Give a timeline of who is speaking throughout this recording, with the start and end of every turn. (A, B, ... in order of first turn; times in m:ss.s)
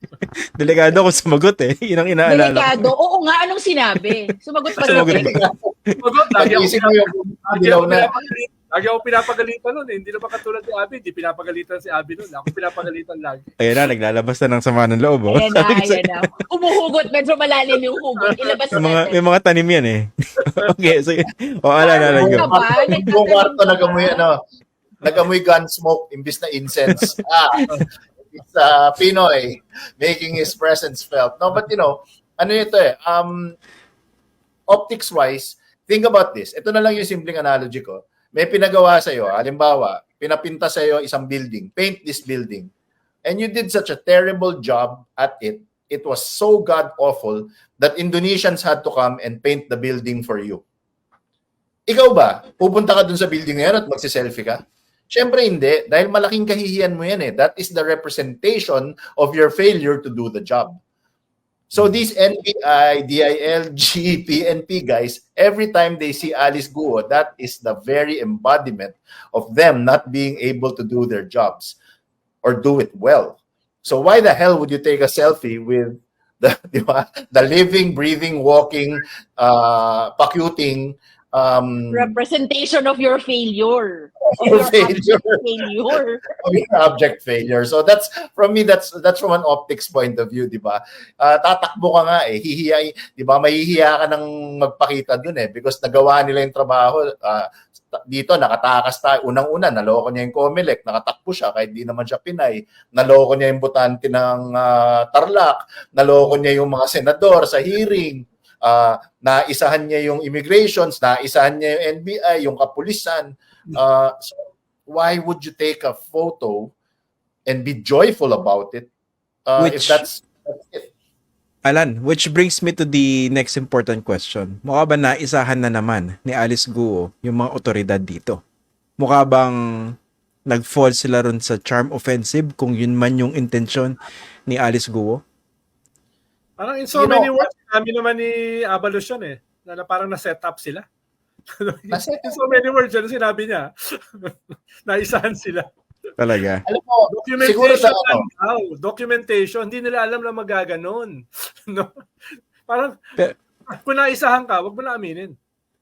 0:00.2-0:02.9 A
0:02.2-0:05.4 B
0:04.8-0:05.3 C
0:04.8-0:06.0 A
0:05.3-0:05.7 D
0:06.0-0:13.5 C
0:06.4-0:08.1 D
0:13.6-0:16.3 A
0:15.3-0:19.2 B
0:18.2-0:18.6 C
0:18.7-0:22.5 A
0:21.8-0:24.2 B
0:22.1-0:24.4 D
0:25.0-0:27.7 D
0:28.3-0:33.6 D
0:34.7-0:42.7 D
0:43.2-0:50.6 D
0:51.9-1:00.8 D
1:01.7-1:11.8 D
1:12.4-1:22.2 D
1:21.9-1:26.2 B
1:24.3-1:25.4 D
1:26.4-1:56.7 D
1:57.5-1:58.9 D
1:59.5-2:00.9 D
1:59.6-2:00.2 A
2:01.6-2:08.4 A
2:09.0-2:09.9 A
2:10.5-2:15.2 A
2:16.6-2:20.8 C
2:16.9-2:17.4 D
2:21.6-2:24.3 C
2:21.9-2:22.3 D
2:24.8-2:25.7 C
2:26.2-2:26.6 A
2:26.6-2:28.2 D
2:27.1-2:31.9 C
2:32.7-2:33.0 C
2:33.7-2:35.3 C